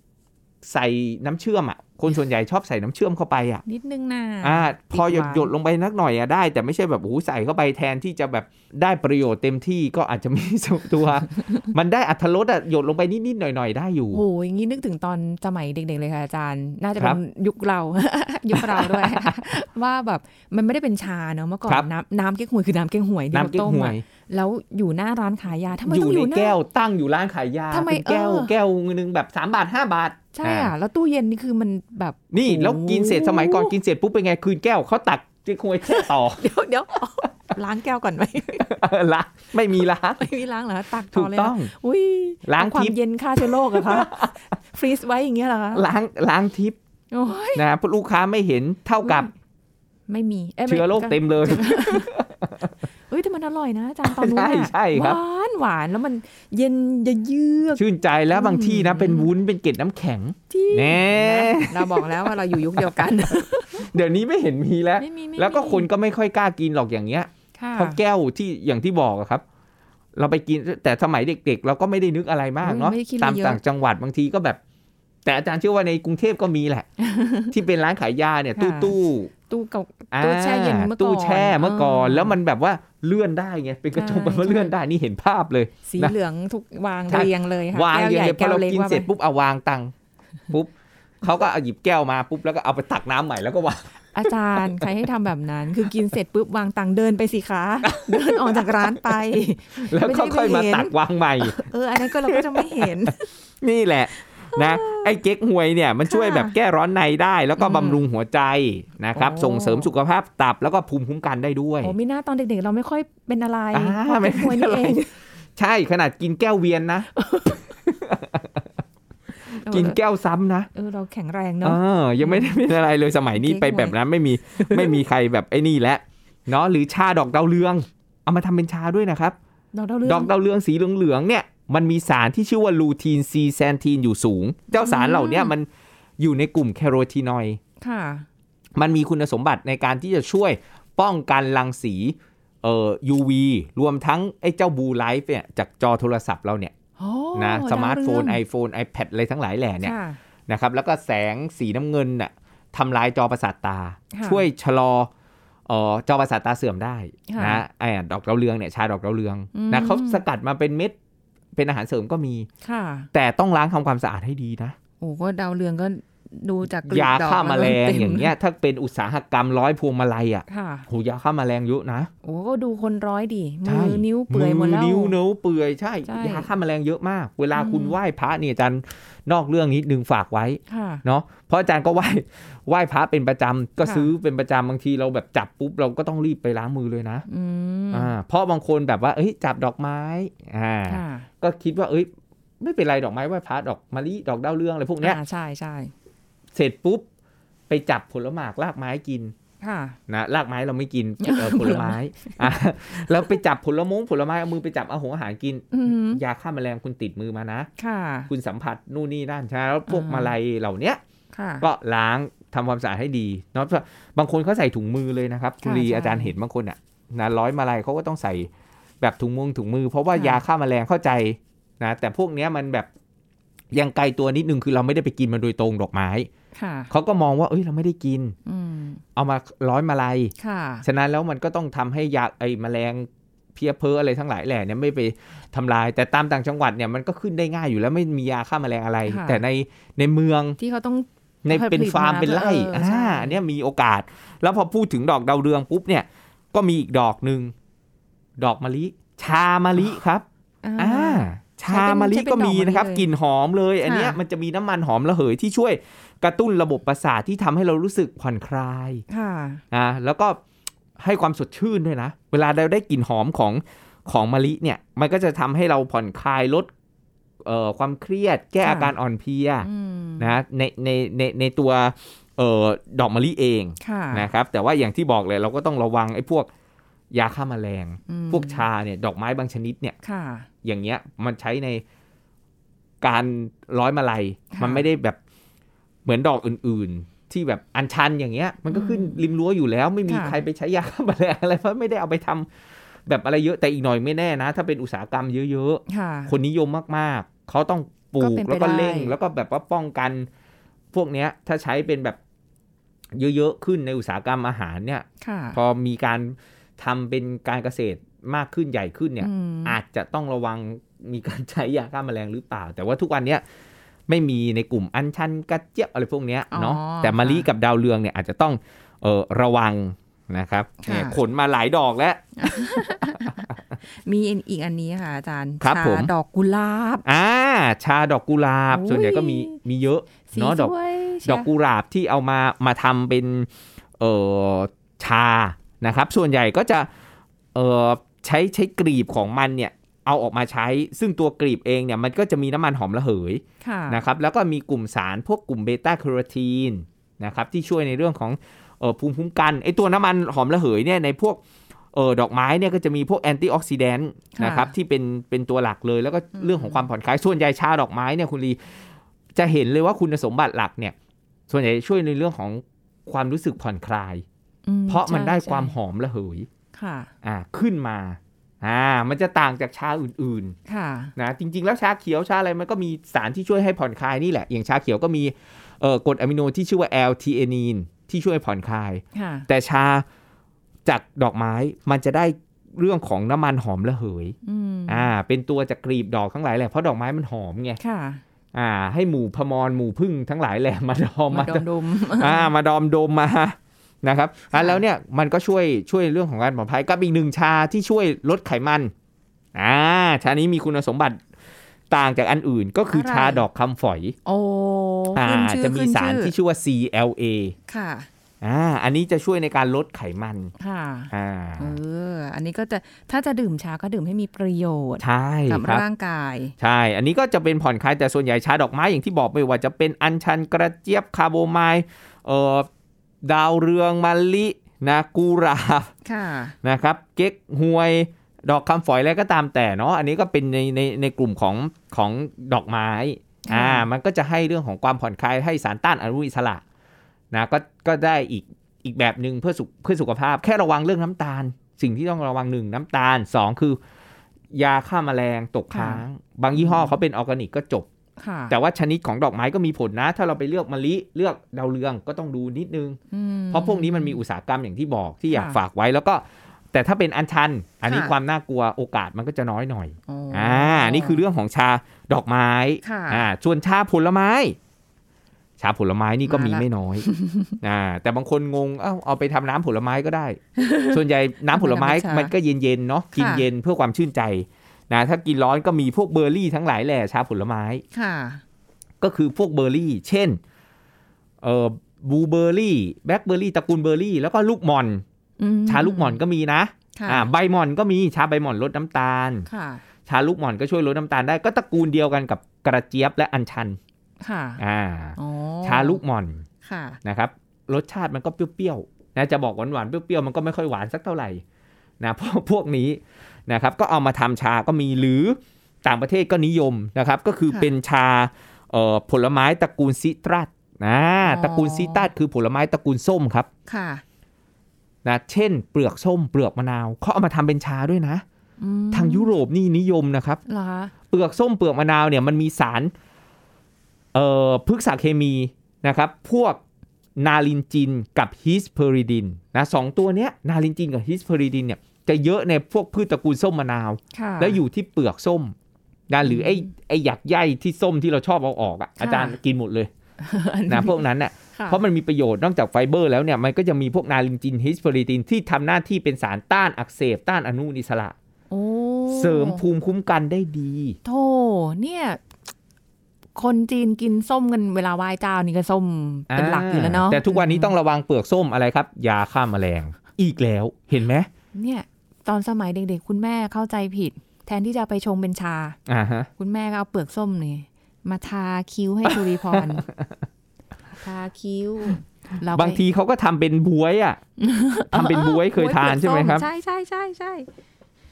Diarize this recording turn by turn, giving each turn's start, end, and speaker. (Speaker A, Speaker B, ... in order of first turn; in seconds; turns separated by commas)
Speaker A: 0.6-3.6, Speaker B: 3.6-5.5, Speaker A: 4.4-14.2, Speaker B: 14.1-26.6, Speaker A: 18.5-19.4, Speaker A: 23.3-24.0, Speaker A: 25.9-30.7, Speaker B: 27.7-28.5, Speaker B: 30.3-33.8, Speaker A: 32.3-36.4, Speaker B: 35.9-38.7, Speaker A: 38.6-40.3, Speaker B: 40.2-45.8, Speaker A: 41.1-41.7, Speaker A: 42.4-44.4, Speaker A: 45.7-46.8, Speaker B: 47.1-47.7, Speaker A: 47.5-49.3, Speaker B: 49.0-49.3, Speaker B: 50.1-52.1, Speaker A: 50.7-52.7, Speaker B: 53.1-59.3, Speaker A: 54.0-55.2, Speaker A: 57.8-69.4, Speaker B: 60.5-63.9, Speaker B: 65.0-65.9, Speaker B: 67.6-68.0, Speaker A: 70.2-74.6, Speaker B: 72.6-73.6, Speaker A: 75.2-76.9, Speaker B: 77.0-77.5, Speaker A: 77.5-79.3, Speaker B: 78.5-78.9, Speaker B: 79.5-82.3, Speaker A: 80.1-86.1, Speaker B: 83.9-84.7, Speaker B: 85.8-89.1, Speaker A: 87.1-89.9, Speaker A: 90.5-94.8, Speaker B: 94.1-103.3, Speaker A: 97.8-99.2, Speaker A: 99.8-111.9, Speaker B: 104.5-105.1, Speaker B: 106.0-106.5, Speaker B: 107.6-108.0, Speaker B: 109.1-109.9, Speaker B: 111.8-115.1, Speaker A: 113.7-115.0, Speaker A: 115.5-117.1, Speaker B: 117.1-117.7, Speaker A: 117.8-118.7, Speaker B: 119.5-120.0, Speaker A: 119.7-120.7, Speaker B: 120.7-122.6, Speaker A: 121.6-129.3, Speaker B: 123.3-124.0, Speaker B: 124.5-125.0, Speaker B: 129.7-130.3, Speaker A: 130.1-135.7, Speaker B: 134.7-135.5, Speaker A: 136.2-137.6, Speaker B: 137.8-138.2, Speaker A: 138.8-146.7, Speaker B: 147.0-148.4, Speaker A: 147.3-149.9, Speaker B: 149.8-150.2, Speaker A: 150.5-155.1, Speaker B: 154.1-154.4, Speaker A: 155.7-160.9, Speaker B: 157.3-157.6, Speaker B: 159.5-160.2, Speaker A: 161.5-162.5, Speaker B: 162.6-163.1, Speaker A: 163.1-164.8, Speaker B: 165.0-168.3, Speaker A: 166.8-172.1, Speaker B: 170.5-170.9, Speaker B: 172.2-175.2, Speaker A: 173.6-187.2, Speaker B: 176.1-176.5, Speaker B: 177.5-178.0, Speaker B: 180.7-181.0, Speaker B: 183.8-184.1, Speaker B: 187.3-188.1, Speaker A: 187.9-192.1, Speaker B: 190.9-191.3, Speaker A: 192.6-195.2, Speaker B: 195.0-195.9, Speaker A: 196.5-197.0, Speaker A: 197.7-199.3, Speaker B: 199.6-200.0, Speaker A: 200.1-207.7, Speaker B: 201.2-202.4, Speaker B: 205.7-206.2, Speaker B: 207.8-208.3, Speaker A: 208.3-211.0, Speaker B: 209.9-210.3, Speaker B: 211.3-211.7, Speaker A: 211.6-218.5, Speaker B: 215.6-216.3, Speaker A: 219.0-222.9, Speaker B: 220.1-220.4, Speaker A: 223.7-226.3, Speaker B: 226.5-226.9, Speaker A: 226.9-228.3, Speaker B: 228.4-229.0, Speaker A: 229.2-240.6, Speaker B: 230.4-230.8, Speaker B: 239.1-239.4, Speaker B: 240.6-243.4, Speaker A: 241.4-247.5, Speaker A: 248.4-250.2, Speaker B: 250.6-253.1, Speaker A: 250.8-259.0, Speaker B: 253.8-254.2, Speaker B: 259.1-259.6, Speaker A: 259.7-260.4, Speaker A: 261.0-266.7, Speaker A: 267.4-269.7, Speaker B: 268.6-268.9, Speaker B: 269.6-270.3, Speaker A: 270.2-276.5, Speaker B: 273.8-274.3, Speaker A: 277.1-280.0, Speaker B: 278.1-278.6, Speaker B: 280.0-280.5, Speaker A: 280.6-281.8, Speaker A: 283.0-285.2, Speaker B: 284.5-284.9, Speaker A: 286.0-292.5, Speaker B: 288.7-289.2, Speaker B: 290.1-290.4, Speaker A: 293.1-300.3, Speaker B: 295.9-296.3, Speaker B: 298.2-299.1, Speaker A: 300.9-302.2, Speaker A: 303.1-313.4, Speaker B: 305.2-305.6, Speaker B: 309.2-309.8, Speaker A: 314.1-323.4, Speaker B: 316.5-317.5, Speaker B: 320.8-321.2, Speaker B: 322.4-327.0, Speaker A: 325.6-326.1, Speaker A: 327.0-336.9, Speaker B: 328.7-329.6, Speaker B: 330.3-331.5, Speaker A: 337.5-351.4, Speaker B: 343.6-344.0, Speaker A: 351.9-358.6, Speaker B: 354.3-354.7, Speaker B: 356.3-356.9, Speaker A: 359.3-360.9, Speaker A: 361.5-364.2, Speaker B: 364.6-365.7, Speaker A: 364.9-366.5, Speaker B: 366.7-367.1, Speaker A: 367.2-370.5, Speaker B: 370.7-371.1, Speaker A: 371.1-380.1, Speaker B: 379.1-379.5, Speaker A: 380.9-384.4, Speaker B: 384.4-385.1, Speaker A: 384.9-387.8, Speaker B: 387.8-388.2, Speaker A: 388.5-398.9, Speaker B: 391.3-392.5, Speaker B: 394.5-394.8, Speaker A: 399.5-401.2, Speaker A: 401.9-404.1, Speaker B: 402.9-403.4, Speaker B: 404.2-406.3, Speaker A: 405.1-407.5, Speaker B: 407.7-408.1, Speaker A: 408.4-410.5, Speaker B: 410.6-416.5, Speaker A: 411.1-411.8, Speaker A: 415.0-415.8, Speaker A: 416.6-422.7, Speaker A: 423.2-425.9, Speaker B: 426.0-426.6, Speaker A: 426.6-436.6, Speaker B: 433.5-433.9, Speaker A: 437.3-443.8, Speaker A: 444.5-447.9, Speaker B: 445.7-446.9, Speaker B: 448.2-448.5, Speaker A: 448.5-453.0, Speaker B: 453.1-454.2, Speaker A: 453.5-464.6, Speaker B: 455.3-455.6, Speaker B: 457.9-458.1, Speaker B: 460.1-461.2, Speaker B: 462.8-463.3, Speaker A: 465.6-467.1, Speaker B: 466.2-467.6, Speaker A: 467.6-477.8, Speaker B: 470.6-471.0, Speaker B: 471.5-472.3, Speaker B: 473.1-473.4, Speaker B: 477.9-478.4, Speaker A: 479.0-480.4, Speaker A: 481.4-485.0, Speaker B: 485.4-486.2, Speaker A: 485.7-489.5, Speaker B: 486.9-487.3, Speaker B: 489.5-489.8, Speaker A: 490.1-493.8, Speaker B: 494.2-494.6, Speaker A: 494.6-496.4, Speaker B: 495.2-496.0, Speaker B: 496.6-497.0, Speaker A: 497.0-501.4, Speaker A: 502.0-513.5, Speaker B: 511.2-512.1, Speaker B: 513.7-514.0, Speaker A: 515.0-518.2, Speaker B: 518.6-519.3, Speaker A: 518.9-520.4, Speaker B: 520.5-520.9, Speaker A: 521.1-522.9, Speaker A: 524.1-526.6, Speaker A: 527.2-535.5, Speaker B: 534.1-534.6, Speaker A: 536.1-539.9, Speaker B: 536.2-536.7, Speaker B: 539.0-539.4, Speaker B: 540.2-541.0, Speaker A: 540.7-548.1, Speaker B: 541.5-541.8, Speaker B: 548.5-549.6, Speaker A: 549.1-551.0, Speaker B: 551.0-552.2, Speaker B: 553.4-557.7, Speaker A: 556.3-561.3, Speaker B: 561.5-565.8, Speaker A: 565.9-566.3, Speaker B: 566.4-569.8, Speaker A: 569.1-570.2, Speaker B: 571.0-572.8, Speaker A: 572.5-574.2, Speaker B: 574.4-577.5, Speaker A: 574.9-576.5